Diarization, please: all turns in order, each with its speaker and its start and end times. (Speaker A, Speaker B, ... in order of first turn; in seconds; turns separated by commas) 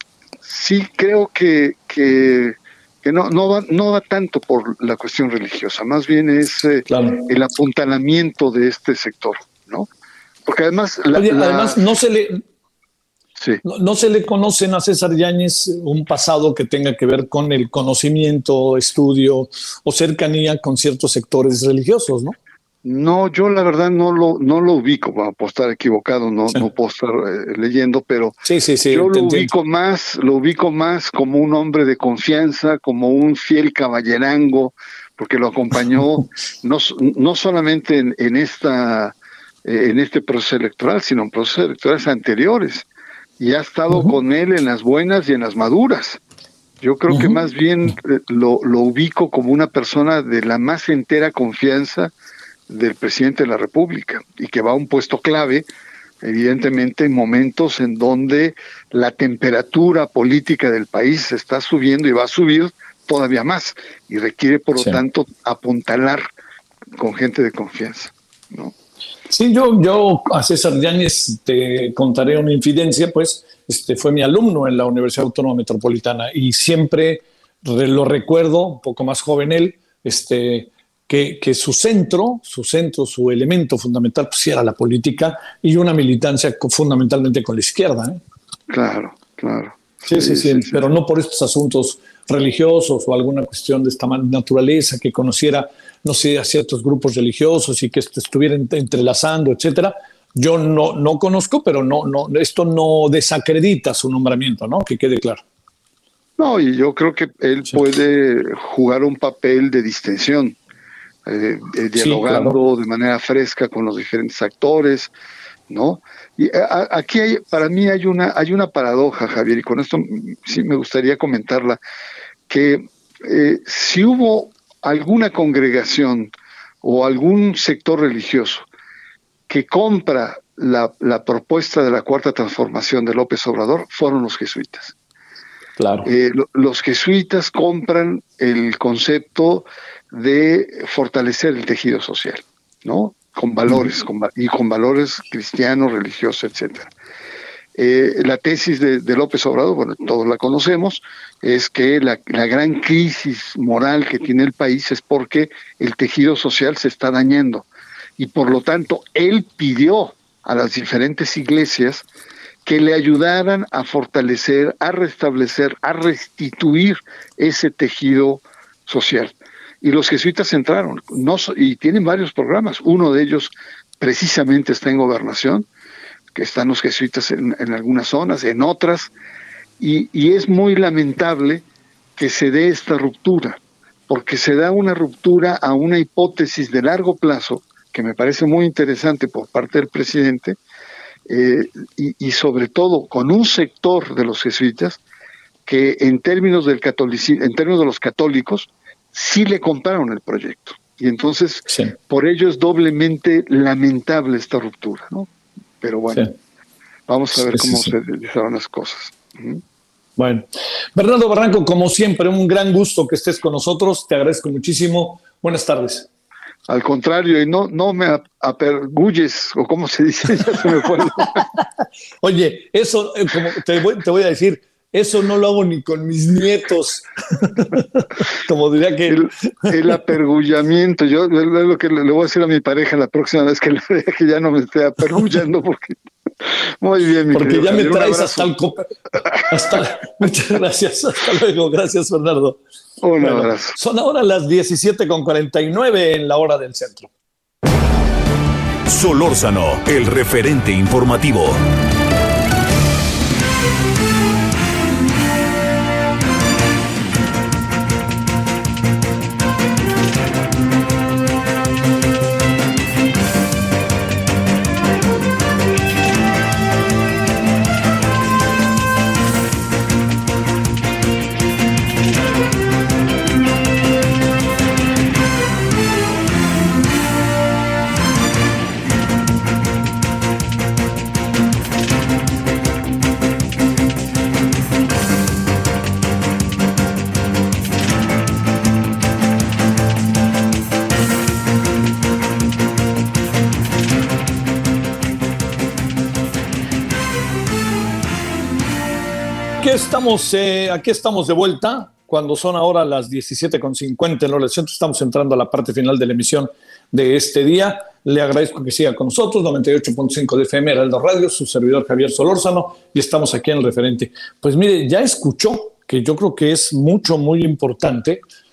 Speaker A: 0.4-9.9, Speaker B: 6.9-7.3, Speaker A: 10.5-11.8, Speaker B: 11.2-12.4, Speaker A: 13.4-13.6, Speaker B: 13.6-22.3, Speaker A: 22.8-28.4, Speaker B: 28.4-29.5, Speaker A: 28.9-42.9, Speaker A: 43.4-46.2, Speaker B: 43.9-44.2, Speaker A: 46.8-52.1, Speaker B: 47.1-47.4, Speaker A: 52.7-55.7, Speaker A: 56.2-66.2, Speaker B: 64.8-65.0, Speaker A: 67.0-68.7, Speaker B: 69.3-88.2, Speaker A: 88.7-90.8, Speaker B: 90.1-105.4, Speaker A: 106.4-110.6, Speaker A: 111.3-115.1, Speaker B: 112.0-112.6, Speaker A: 115.7-121.8, Speaker A: 122.5-126.3, Speaker A: 126.8-128.7, Speaker A: 129.5-134.9, Speaker B: 135.8-136.1, Speaker A: 136.1-146.9, Speaker A: 147.8-157.7, Speaker A: 158.2-162.0, Speaker A: 162.7-175.7, Speaker A: 176.3-179.1, Speaker A: 179.8-181.6, Speaker A: 182.2-190.6, Speaker A: 191.3-195.0, Speaker A: 195.7-205.3, Speaker B: 201.7-201.9, Speaker A: 205.8-206.3, Speaker A: 207.1-209.6, Speaker B: 207.3-207.9, Speaker B: 210.2-216.1, Speaker A: 216.7-221.4, Speaker B: 220.6-221.6, Speaker B: 222.2-230.0, Speaker A: 229.1-236.0, Speaker A: 236.8-238.5, Speaker B: 237.3-238.9, Speaker A: 239.2-239.8, Speaker B: 239.5-242.6, Speaker A: 243.0-243.8, Speaker B: 243.2-247.1, Speaker C: 248.9-251.6, Speaker B: 299.6-318.2